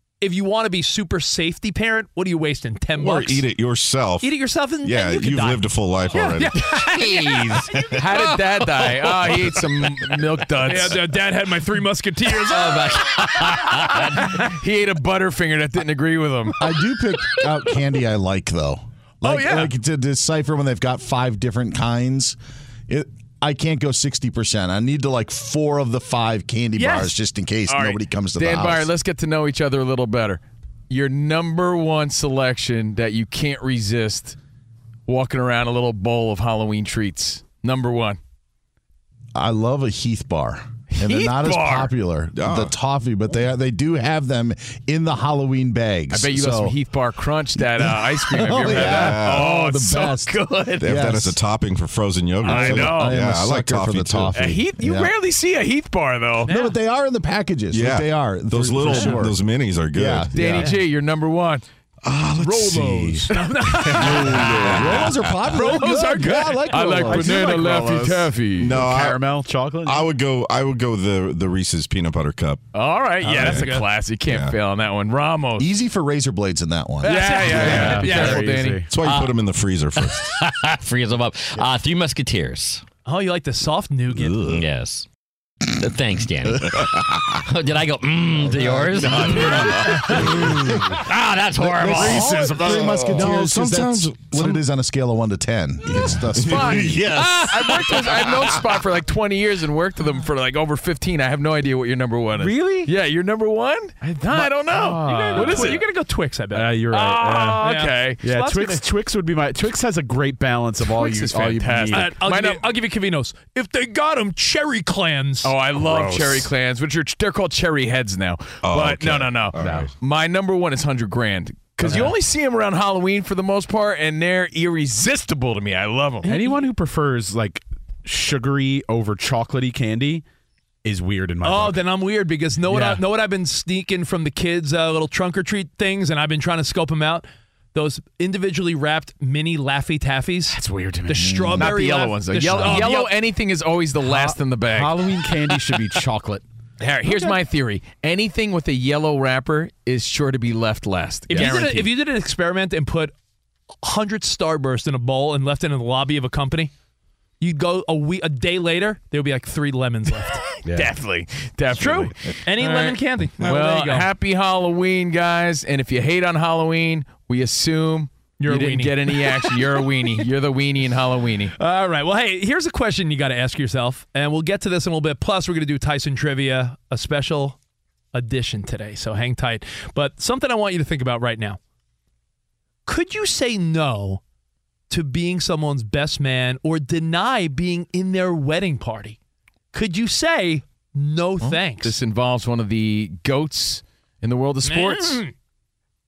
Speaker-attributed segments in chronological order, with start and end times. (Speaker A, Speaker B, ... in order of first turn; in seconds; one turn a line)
Speaker A: 0.2-3.5
Speaker B: 3.0-4.3
Speaker A: 4.2-8.3
Speaker B: 4.8-6.6
Speaker C: 7.0-7.7
Speaker D: 8.0-11.0
Speaker A: 10.7-14.3
Speaker C: 12.7-13.1
Speaker D: 13.2-16.6
Speaker E: 16.6-22.4
Speaker A: 19.2-19.7
Speaker E: 22.9-28.9
Speaker A: 26.8-27.1
Speaker A: 27.7-28.0
Speaker D: 28.4-34.4
Speaker D: 35.1-38.2
Speaker E: 39.4-46.8
Speaker D: 41.0-41.9
Speaker B: 42.4-42.7
Speaker D: 46.1-51.0
Speaker E: 47.6-51.4
Speaker B: 48.5-49.5
Speaker B: 50.8-54.4
Speaker E: 52.4-55.1
Speaker D: 52.5-53.2
Speaker D: 54.4-56.5
Speaker A: 56.5-56.7
Speaker E: 56.5-59.4
Speaker B: 57.7-60.3
Speaker E: 59.9-60.7
Speaker D: 60.3-61.6
Speaker B: 62.0-63.2
Speaker E: 62.5-63.2
Speaker A: 63.3-67.0
Speaker B: 64.0-65.1
Speaker E: 64.0-67.5
Speaker D: 66.7-69.0
Speaker F: 66.9-70.1
Speaker B: 68.6-69.2
Speaker B: 69.8-72.6
Speaker D: 72.7-75.7
Speaker A: 73.2-73.8
Speaker B: 73.3-73.7
Speaker B: 74.3-74.5
Speaker E: 75.6-77.1
Speaker A: 77.0-78.5
Speaker D: 77.0-78.8
Speaker F: 77.5-78.9
Speaker B: 78.9-80.4
Speaker C: 79.0-79.3
Speaker C: 80.0-82.8
Speaker A: 83.0-84.5
Speaker C: 84.4-85.1
Speaker C: 85.8-86.8
Speaker C: 87.5-89.6
Speaker E: 88.5-89.7
Speaker A: 89.5-90.2
Speaker C: 91.0-92.3
Speaker E: 91.7-97.2
Speaker B: 92.0-94.6
Speaker A: 92.0-92.8
Speaker D: 96.4-105.8
Speaker B: 96.4-97.2
Speaker F: 102.4-102.9
Speaker F: 104.3-105.8
Speaker A: 104.7-106.7
Speaker F: 106.5-107.6
Speaker D: 106.9-108.2
Speaker A: 107.6-108.8
Speaker F: 108.2-112.1
Speaker D: 110.8-112.6
Speaker A: 111.9-115.5
Speaker D: 115.4-126.3
Speaker B: 118.6-119.9
Speaker F: 119.6-119.9
Speaker F: 121.8-122.1
Speaker A: 126.2-126.6
Speaker F: 126.2-130.2
Speaker F: 130.8-131.8
Speaker A: 131.4-143.1
Speaker F: 132.7-133.0
Speaker F: 140.5-141.8
Speaker D: 141.6-145.1
Speaker F: 142.4-142.9
Speaker F: 144.0-146.4
Speaker D: 146.8-151.9
Speaker A: 151.3-153.1
Speaker A: 153.8-156.7
Speaker A: 157.4-160.4
Speaker D: 160.7-171.5
Speaker A: 161.7-164.1
Speaker A: 168.4-169.5
Speaker A: 171.6-177.6
Speaker A: 178.1-181.6
Speaker A: 182.9-184.2
Speaker A: 184.9-189.2
Speaker A: 189.7-192.0
Speaker D: 191.4-195.2
Speaker A: 194.6-195.3